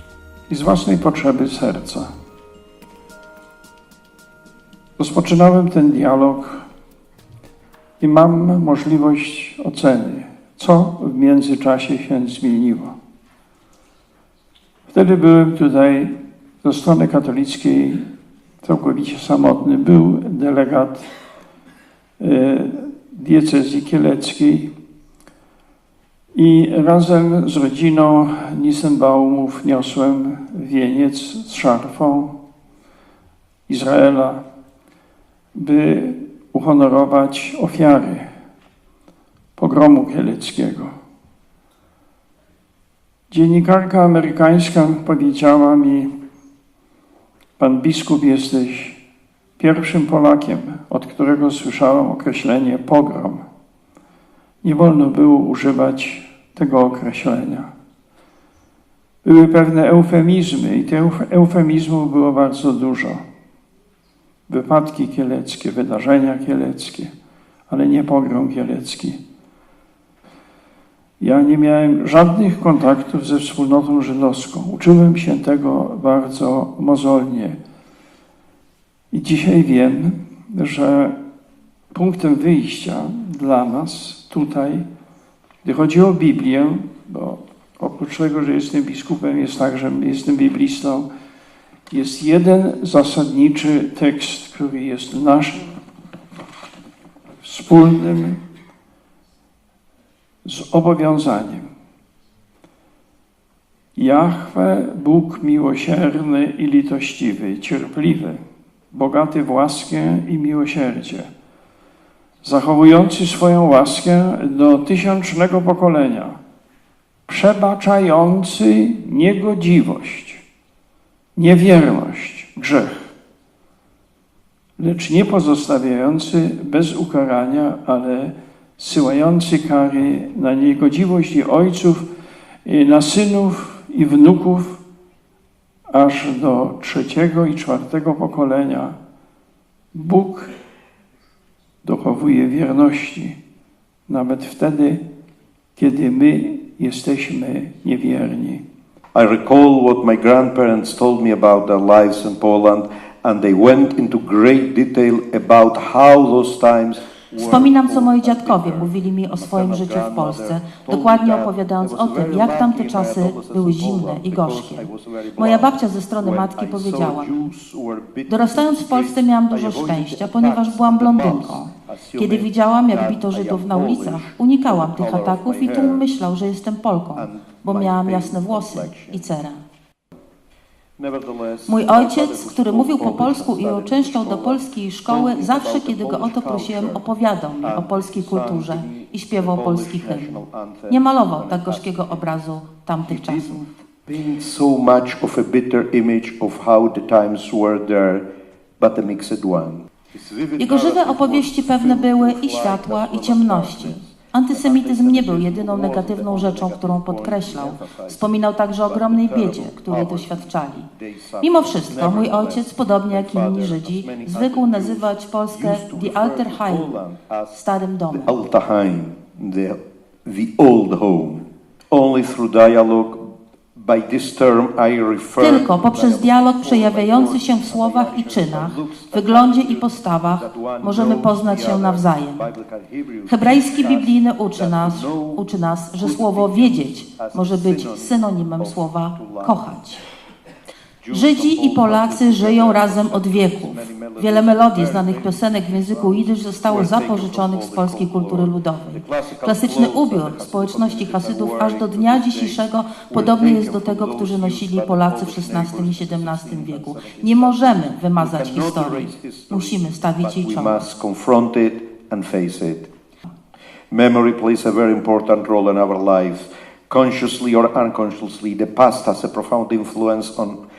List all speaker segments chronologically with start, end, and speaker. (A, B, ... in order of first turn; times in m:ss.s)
0:00.5-0:02.1 A
0:05.0-0:06.7 A
0:08.0-0:12.9 A
0:14.9-0:18.1 A
0:18.6-0:21.1 A
0:22.2-0:24.7 A
0:26.3-0:32.3 A
0:33.7-0:34.4 A
0:35.5-0:38.3 A
0:39.6-0:40.9 A
0:43.3-0:46.1 A
0:47.6-0:49.0 A
0:49.6-0:53.4 A
0:54.6-0:57.7 A
0:59.2-1:03.2 A
1:04.5-1:07.1 A
1:07.7-1:09.2 A
1:11.2-1:17.6 A
1:19.1-1:21.2 A
1:21.9-1:24.8 A
1:25.6-1:31.1 A
1:31.9-1:35.8 A
1:37.4-1:38.4 A
1:40.4-1:41.7 A
1:44.0-1:51.3 A
1:52.4-1:56.4 A
1:57.3-2:00.4 A
2:01.4-2:03.1 A
2:04.8-2:12.1 A
2:12.6-2:14.8 A
2:15.9-2:19.0 A
2:19.9-2:20.5 A
2:21.8-2:23.4 A
2:24.1-2:25.0 A
2:25.8-2:28.6 A
2:29.1-2:56.1 B
2:37.4-2:47.3 C
2:48.3-2:59.6 C
2:57.2-2:59.3 B
3:01.0-3:07.0 B
3:01.7-3:10.4 C
3:07.6-3:12.3 B
3:10.9-3:13.7 C
3:13.0-3:18.2 B
3:18.8-3:37.6 B
3:20.6-3:30.9 C
3:31.4-3:36.9 C
3:37.5-3:38.3 C
3:38.1-3:59.7 B
3:45.4-3:52.4 C
3:53.3-4:00.0 C
4:01.0-4:22.9 B
4:01.1-4:20.8 C
4:23.9-4:30.6 B